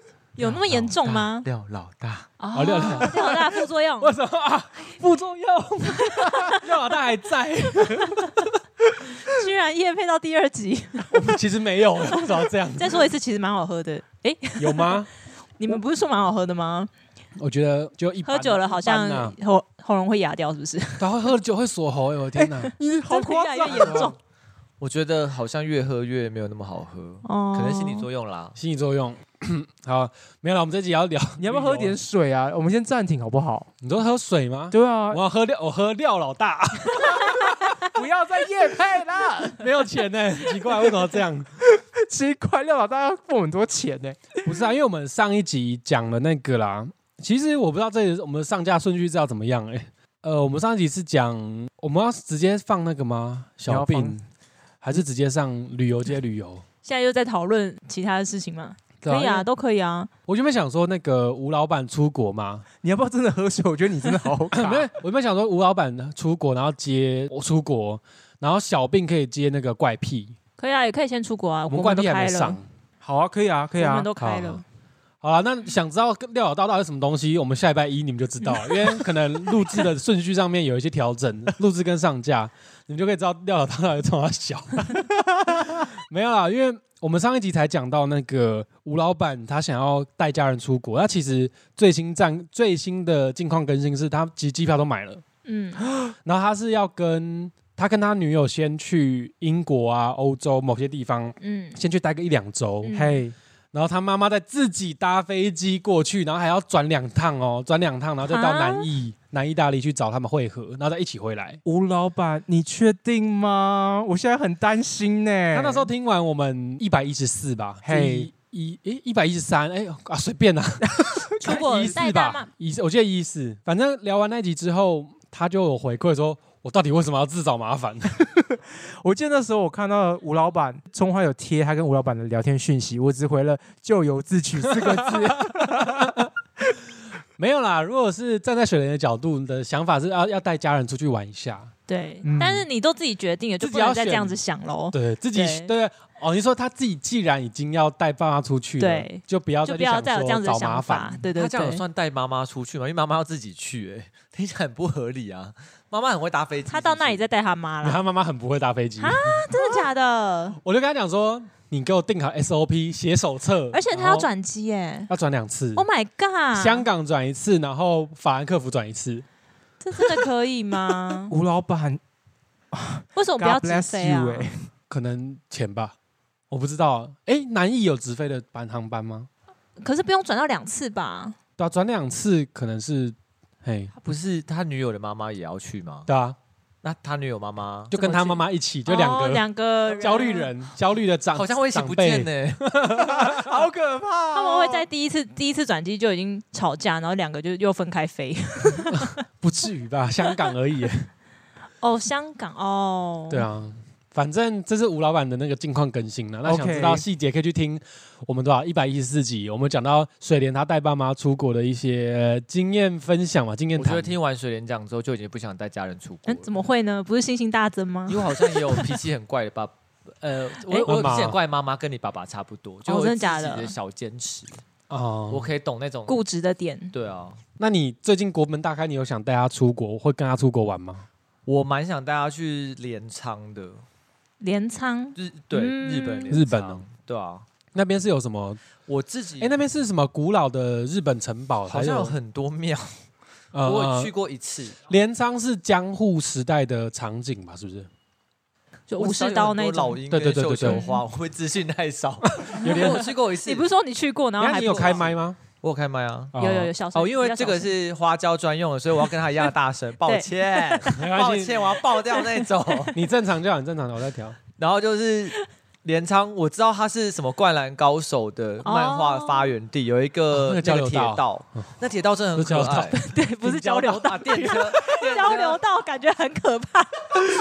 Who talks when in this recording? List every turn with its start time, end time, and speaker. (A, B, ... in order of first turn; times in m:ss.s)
0:00.4-0:01.5 A
0:00.4-0:02.3 B
0:02.4-0:04.1 A
0:02.5-0:08.5 C
0:06.0-0:06.6 A
0:09.3-0:11.2 A
0:11.1-0:13.0 C
0:12.7-0:15.0 A
0:14.6-0:15.1 C
0:15.6-0:16.9 A
0:17.4-0:19.3 C
0:18.2-0:21.1 A
0:21.0-0:22.7 C
0:22.4-0:24.1 D
0:23.1-0:24.1 A
0:23.8-0:24.1 C
0:24.8-0:28.6 B
0:27.2-0:28.0 A
0:28.6-0:32.0 C
0:31.4-0:33.7 D
0:33.8-0:37.8 C
0:34.7-0:35.2 D
0:37.8-0:39.7 D
0:39.6-0:41.5 C
0:40.6-0:41.1 D
0:41.6-0:44.5 D
0:44.4-0:54.2 C
0:53.7-0:54.2 D
0:54.8-0:56.6 C
0:56.8-1:00.1 A
0:59.0-0:59.5 C
1:00.3-1:02.6 C
1:02.8-1:04.9 D
1:04.5-1:10.4 C
1:10.6-1:12.6 A
1:11.7-1:12.6 C
1:13.0-1:14.1 D
1:13.8-1:14.6 A
1:14.2-1:14.6 C
1:15.2-1:35.2 C
1:35.4-1:35.8 A
1:36.2-1:43.0 C
1:41.4-1:41.8 A
1:42.8-1:43.2 A
1:42.9-1:43.3 D
1:43.7-1:51.6 C
1:48.2-1:48.9 A
1:51.6-1:55.9 D
1:55.5-2:08.1 C
1:57.8-1:58.3 D
2:01.0-2:02.0 D
2:01.4-2:02.5 A
2:08.4-2:16.2 D
2:14.8-2:16.3 C
2:17.4-2:21.7 C
2:21.9-2:25.7 A
2:22.2-2:22.6 D
2:23.6-2:24.4 C
2:24.9-2:31.2 C
2:28.8-2:31.8 A
2:31.3-2:37.2 B
2:36.7-2:38.0 A
2:37.8-2:39.4 C
2:39.0-2:40.6 A
2:40.6-2:44.3 C
2:43.7-2:45.1 A
2:45.1-2:45.8 C
2:45.7-2:46.8 A
2:46.5-2:49.2 C
2:49.8-2:51.3 A
2:51.3-2:52.0 D
2:52.7-2:54.7 D
2:53.1-2:54.5 A
2:54.9-2:55.9 C
2:56.5-2:59.3 C
2:59.8-3:01.4 A
3:01.6-3:03.9 C
3:03.9-3:06.1 B
3:06.1-3:06.4 C
3:06.8-3:08.1 B
3:07.9-3:13.7 C
3:07.9-3:10.5 A
3:11.3-3:12.8 B
3:12.9-3:14.9 D
3:14.3-3:19.2 A
3:18.9-3:21.1 C
3:21.8-3:23.5 A
3:23.3-3:34.1 C
3:26.4-3:27.0 D
3:33.8-3:36.6 B
3:36.2-3:39.0 A
3:38.1-3:44.6 B
3:40.6-3:41.0 A
3:40.8-3:41.4 C
3:42.8-3:43.7 A
3:44.9-3:45.5 C
3:45.3-3:46.2 B
3:46.1-3:46.9 A
3:46.9-3:47.4 B
3:47.6-3:51.0 C
3:51.4-3:53.8 B
3:54.4-3:56.3 A
3:55.2-3:57.4 B
3:56.3-3:56.8 C
3:57.7-3:58.6 C
3:58.8-3:59.6 B
3:59.4-4:02.2 C
4:01.7-4:02.9 B
4:03.5-4:04.1 C
4:03.6-4:04.8 B
4:04.8-4:07.9 C
4:08.9-4:10.0 A
4:09.0-4:13.6 B
4:10.1-4:10.8 C
4:10.6-4:11.0 A
4:12.4-4:13.0 C
4:12.6-4:15.1 A
4:14.4-4:15.4 C
4:14.7-4:16.3 B
4:16.3-4:16.7 C
4:16.4-4:17.7 A
4:16.9-4:23.0 B
4:20.0-4:21.0 A
4:21.0-4:21.8 C
4:22.2-4:22.9 A
4:22.9-4:24.4 C
4:24.6-4:35.6 B
4:28.6-4:29.5 A
4:30.3-4:31.7 C
4:32.3-4:33.0 C
4:33.0-4:37.2 A